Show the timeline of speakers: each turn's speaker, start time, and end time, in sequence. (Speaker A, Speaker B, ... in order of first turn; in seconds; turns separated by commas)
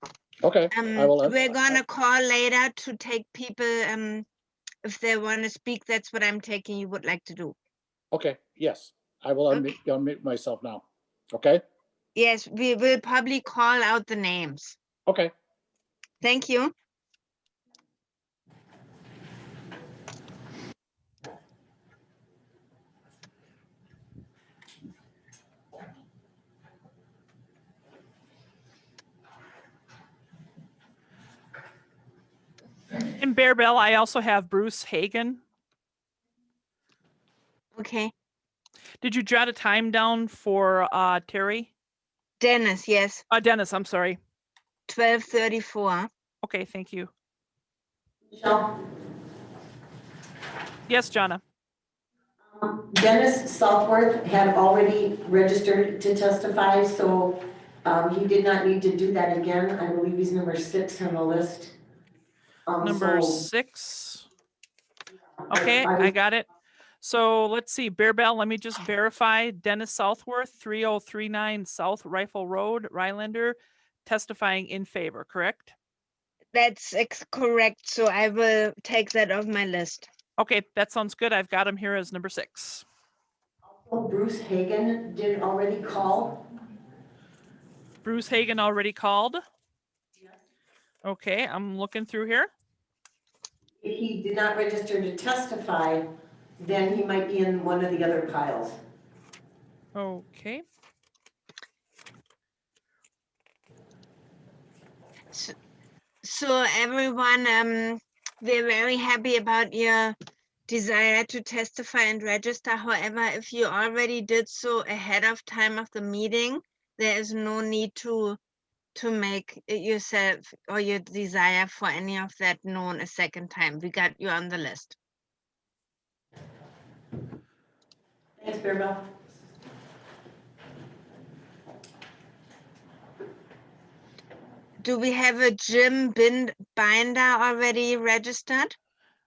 Speaker A: 0.4-1.8, Speaker B: 0.7-4.3, Speaker B: 4.8-7.6, Speaker A: 8.1-11.6, Speaker B: 12.2-14.8, Speaker A: 15.1-15.3, Speaker B: 16.2-16.7, Speaker C: 33.2-35.4, Speaker B: 37.8-38.1, Speaker C: 39.0-41.7, Speaker B: 42.4-43.2, Speaker C: 43.3-44.2, Speaker B: 44.9-46.1, Speaker C: 46.4-47.1, Speaker D: 48.3-48.7, Speaker C: 50.9-51.4, Speaker D: 52.5-61.7, Speaker D: 62.7-63.5, Speaker C: 62.8-64.3, Speaker D: 65.5-66.1, Speaker C: 65.5-66.5, Speaker C: 67.0-75.7, Speaker B: 76.5-80.1, Speaker C: 80.4-82.8, Speaker D: 83.7-86.4, Speaker C: 88.0-89.4, Speaker C: 91.0-92.5, Speaker D: 93.8-96.0, Speaker D: 96.6-98.8, Speaker C: 100.0-100.6, Speaker B: 106.2-110.2, Speaker B: 110.7-118.4, Speaker B: 119.0-125.0, Speaker D: 128.4-129.0, Speaker B: 134.8-138.7